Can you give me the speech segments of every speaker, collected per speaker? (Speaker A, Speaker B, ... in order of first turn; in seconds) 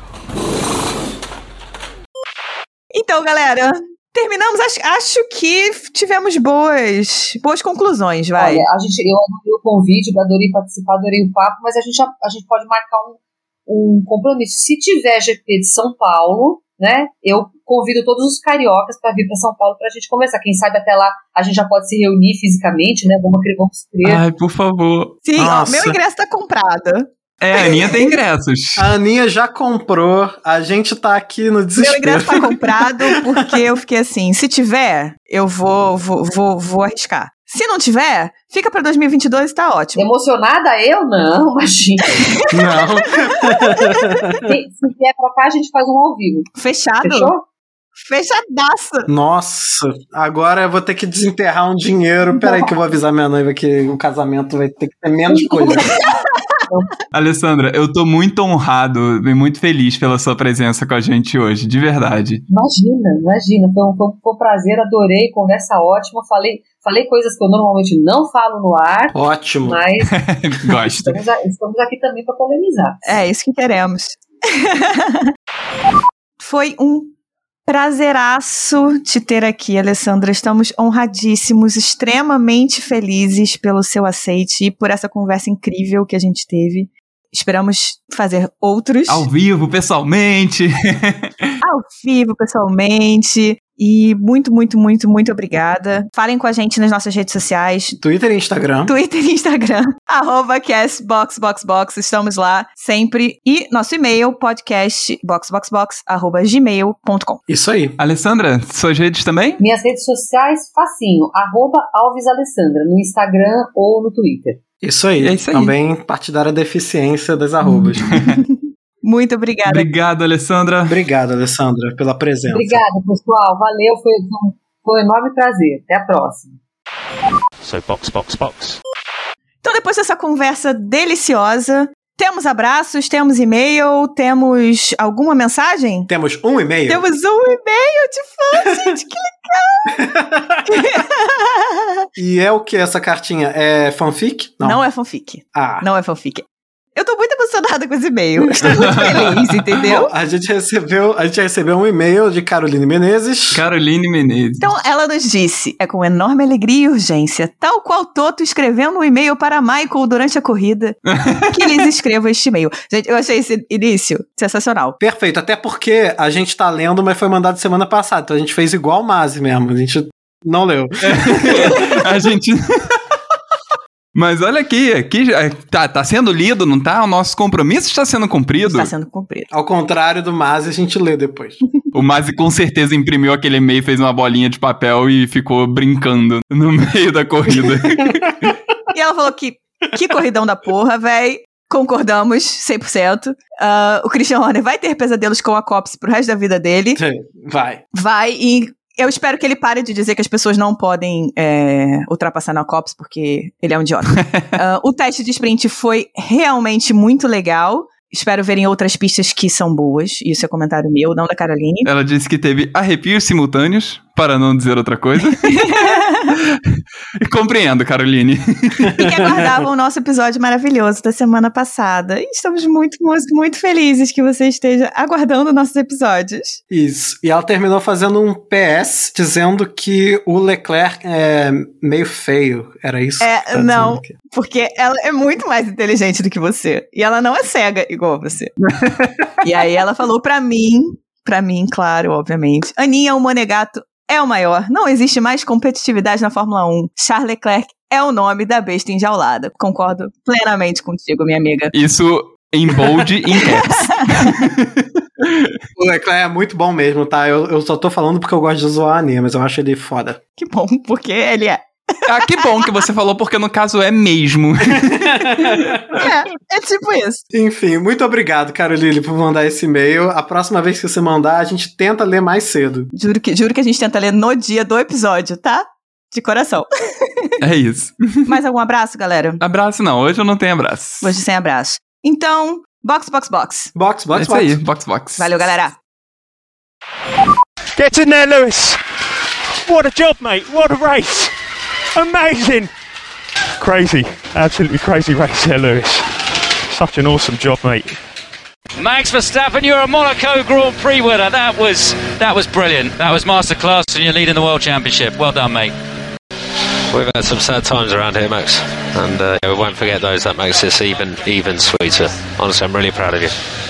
Speaker A: 2.9-8.7, 25.2-27.1, 31.8-40.0, 43.6-44.1, 46.6-47.3, 48.0-49.1, 73.0-75.3, 76.4-77.1, 77.7-89.3, 91.6-98.0, 98.9-107.4, 118.3-119.9, 129.6-136.1, 136.9-140.0, 140.7-141.8, 144.6-146.4, 146.9-150.1, 154.6-161.0, 161.5-165.0, 178.6-179.5, 188.9-197.0, 197.9-211.9, 215.4-216.3, 219.0-226.6, 233.2-238.5, 239.4-251.7, 253.3-254.3, 260.4-262.7, 266.0-267.2, 272.9-277.3, 278.3-279.4, 281.0-283.7, 285.2-285.8
Speaker B: 8.4-24.2, 40.0-42.2, 44.4-46.5, 47.0-47.5, 52.4-52.7, 55.3-56.1, 56.7-57.0, 62.5-70.1, 70.8-73.1, 109.6-114.6, 122.5-126.5
Speaker C: 24.0-25.1, 27.4-28.9, 57.1-62.4, 70.1-71.2, 89.1-91.5, 108.0-109.6, 115.2-115.7, 119.7-121.0, 148.7-149.4, 153.5-154.7, 161.1-161.8, 171.1-173.0, 174.2-178.9, 181.9-188.3, 204.2-204.5, 211.8-219.3, 238.8-239.1, 251.7-255.6, 262.1-265.5, 277.4-278.4, 279.4-281.1, 284.1-285.5
Speaker D: 25.4-26.0, 28.8-33.2, 42.5-44.4, 49.1-55.9, 69.1-69.8, 98.0-98.9, 107.5-108.0, 114.8-118.2, 120.9-122.8, 136.1-137.0, 139.9-140.9, 142.2-144.8, 145.5-145.8, 148.4-149.3, 149.8-153.6, 165.0-171.8, 179.5-181.6, 187.6-188.5, 197.0-197.8, 218.9-219.3, 226.7-234.1, 255.8-260.2, 264.8-266.1, 267.3-272.9, 283.8-284.6
Speaker E: 127.6-128.8, 306.9-313.4
Speaker F: 287.8-288.8, 289.6-291.3, 291.9-292.7, 293.6-296.1, 296.7-298.0
Speaker G: 298.8-305.8